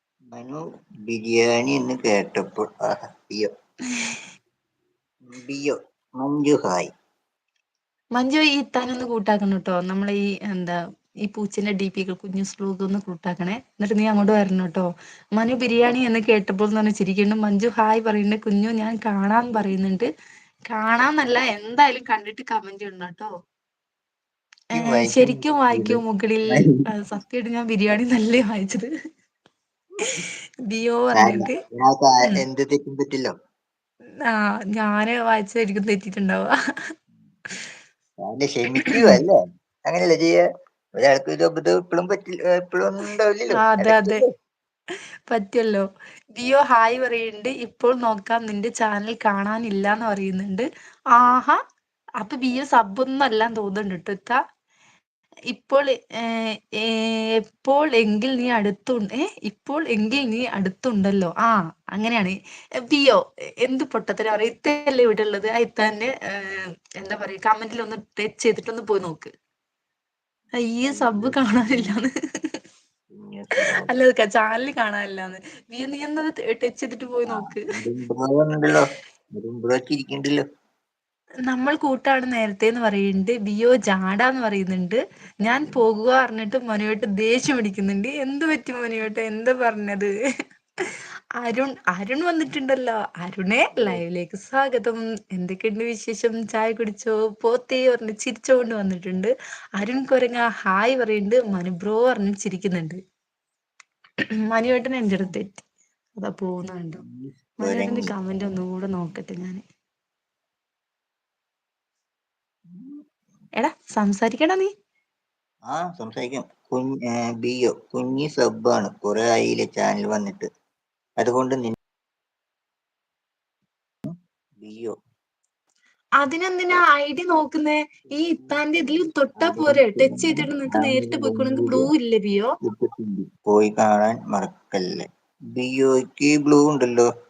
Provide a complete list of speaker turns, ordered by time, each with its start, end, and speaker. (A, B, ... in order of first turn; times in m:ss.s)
0:00.3-0:03.5 A
0:05.3-0:06.9 A
0:08.2-0:20.1 B
0:20.7-0:23.3 B
0:24.7-0:26.8 A
0:24.8-0:28.9 B
0:30.1-0:31.6 B
0:31.1-0:33.3 A
0:34.2-0:36.5 B
0:38.2-0:40.4 A
0:38.8-0:39.2 B
0:41.0-0:44.3 A
0:43.5-0:44.2 B
0:45.3-0:51.6 B
0:52.2-0:54.4 B
0:55.5-1:09.3 B
1:10.7-1:12.1 B
1:10.8-1:12.0 A
1:13.1-1:13.9 A
1:13.9-1:17.6 B
1:17.3-1:20.4 A
1:21.5-1:30.1 B
1:25.5-1:25.8 A
1:31.4-1:43.0 B
1:33.7-1:34.0 A
1:44.5-1:45.6 B
1:46.2-1:47.0 B
1:47.0-1:48.1 A
1:47.6-1:49.6 B
1:52.7-1:53.0 A
1:53.6-1:54.7 B
1:55.7-2:00.5 A
2:01.2-2:01.8 A
2:04.0-2:05.0 A
2:06.2-2:12.5 B
2:08.1-2:08.6 A
2:09.4-2:11.9 A
2:12.6-2:17.1 A